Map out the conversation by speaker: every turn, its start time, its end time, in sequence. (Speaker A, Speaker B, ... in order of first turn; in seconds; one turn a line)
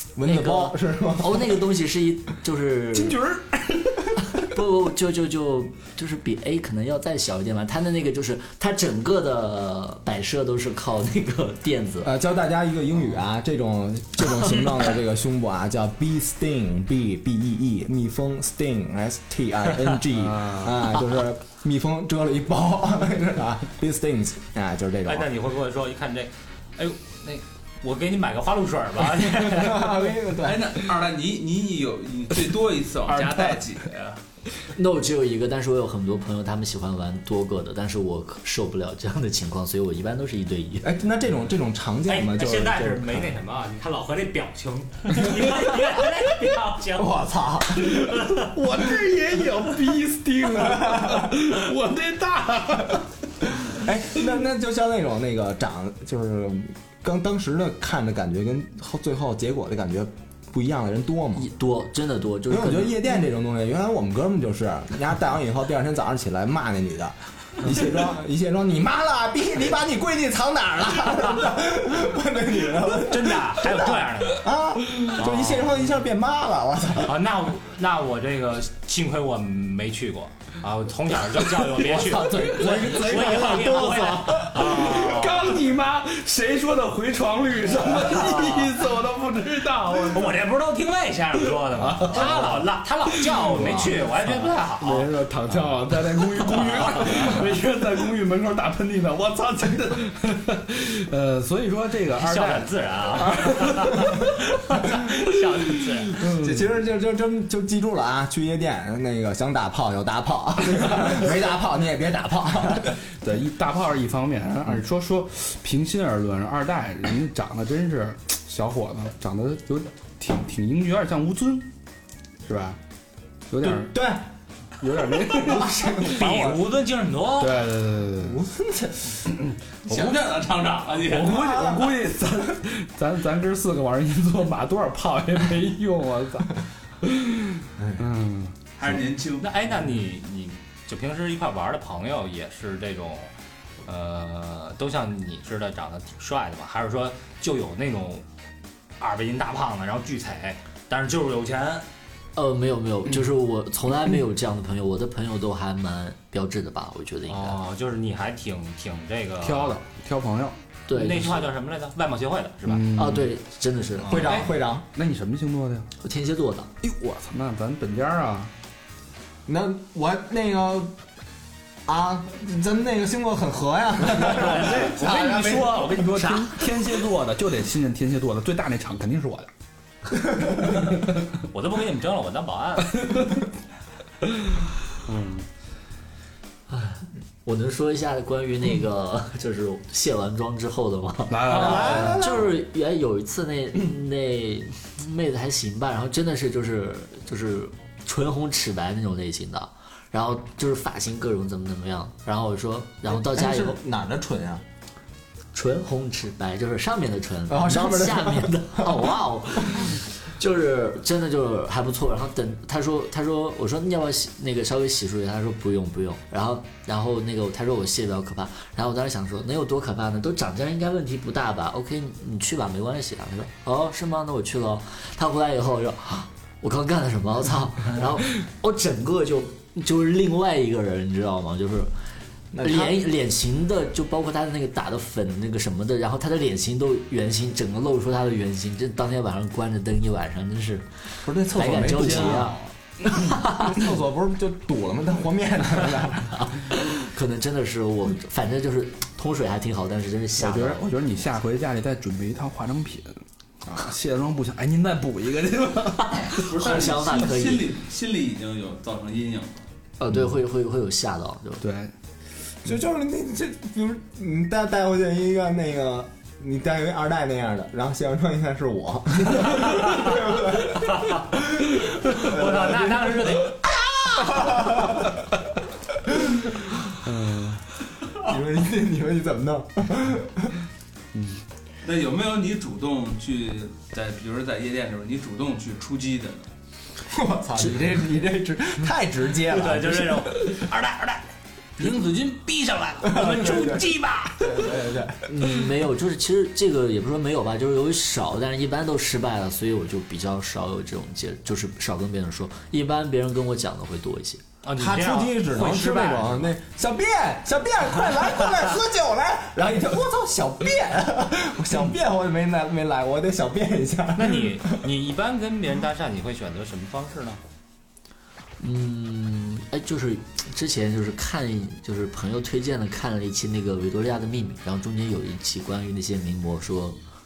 Speaker A: 0.2-1.5
Speaker B: 0.2-3.2
Speaker C: 2.9-4.4
Speaker B: 4.3-12.1
Speaker A: 12.0-25.3
Speaker C: 20.1-20.8
Speaker D: 25.1-30.1
Speaker A: 29.4-30.8
Speaker E: 30.4-34.2
Speaker C: 33.0-33.6
Speaker B: 34.8-40.9
Speaker A: 40.8-43.3
Speaker D: 42.1-47.1
Speaker A: 47.0-48.1
Speaker C: 47.8-53.1
Speaker D: 48.2-48.5
Speaker A: 50.5-51.4
Speaker A: 53.6-61.5
Speaker B: 61.4-63.0
Speaker A: 62.5-77.2
Speaker D: 72.9-74.5
Speaker D: 75.1-75.7
Speaker D: 77.0-85.6
Speaker A: 81.8-84.9
Speaker C: 82.2-90.4
Speaker D: 88.0-88.8
Speaker D: 90.1-95.1
Speaker C: 91.6-104.3
Speaker A: 93.5-93.9
Speaker D: 96.3-97.5
Speaker D: 102.1-106.3
Speaker C: 105.8-106.7
Speaker A: 106.3-113.0
Speaker C: 112.9-121.7
Speaker C: 122.4-122.8
Speaker C: 123.5-123.9
Speaker A: 123.6-124.2
Speaker C: 124.8-126.5
Speaker A: 125.3-126.7
Speaker D: 126.0-127.8
Speaker C: 127.4-128.4
Speaker A: 128.2-129.2
Speaker C: 129.2-130.2
Speaker E: 129.8-131.6
Speaker C: 131.0-139.0
Speaker A: 131.4-132.0
Speaker A: 137.8-138.0
Speaker E: 138.8-139.5
Speaker D: 139.4-143.3
Speaker D: 143.8-148.2
Speaker D: 149.0-151.9
Speaker B: 152.4-157.6
Speaker D: 157.3-159.8
Speaker C: 159.4-160.6
Speaker B: 160.9-161.5
Speaker D: 160.9-162.9
Speaker C: 162.7-163.3
Speaker B: 162.9-164.3
Speaker D: 164.0-164.5
Speaker A: 164.0-164.9
Speaker C: 164.9-165.9
Speaker B: 166.0-166.7
Speaker C: 166.8-168.5
Speaker A: 169.5-171.0
Speaker A: 171.9-175.8
Speaker C: 174.1-179.5
Speaker D: 174.6-175.4
Speaker D: 176.0-176.6
Speaker C: 180.7-181.3
Speaker D: 181.4-183.2
Speaker C: 183.0-183.3
Speaker C: 184.2-185.5
Speaker B: 186.7-203.8
Speaker C: 191.3-192.4
Speaker D: 191.5-192.1
Speaker A: 191.6-192.5
Speaker A: 203.1-204.6
Speaker B: 205.5-232.0
Speaker A: 207.5-209.1
Speaker A: 232.5-233.0
Speaker B: 232.6-243.8
Speaker A: 241.2-242.7
Speaker C: 241.9-242.4
Speaker A: 243.5-246.6
Speaker B: 246.4-250.9
Speaker C: 250.4-256.6
Speaker B: 256.2-257.7
Speaker E: 256.3-259.7
Speaker B: 260.0-261.6
Speaker C: 261.6-261.9
Speaker A: 262.6-275.1
Speaker D: 269.6-270.1
Speaker D: 270.8-271.2
Speaker D: 271.7-274.0
Speaker A: 276.1-276.7
Speaker C: 277.0-277.6
Speaker A: 278.2-280.5
Speaker C: 281.1-281.4
Speaker E: 281.8-286.5
Speaker A: 287.0-290.4
Speaker D: 289.5-294.8
Speaker A: 293.0-295.3
Speaker B: 295.3-304.4
Speaker D: 304.6-306.5
Speaker A: 304.8-314.8
Speaker D: 314.1-317.4
Speaker B: 318.6-327.0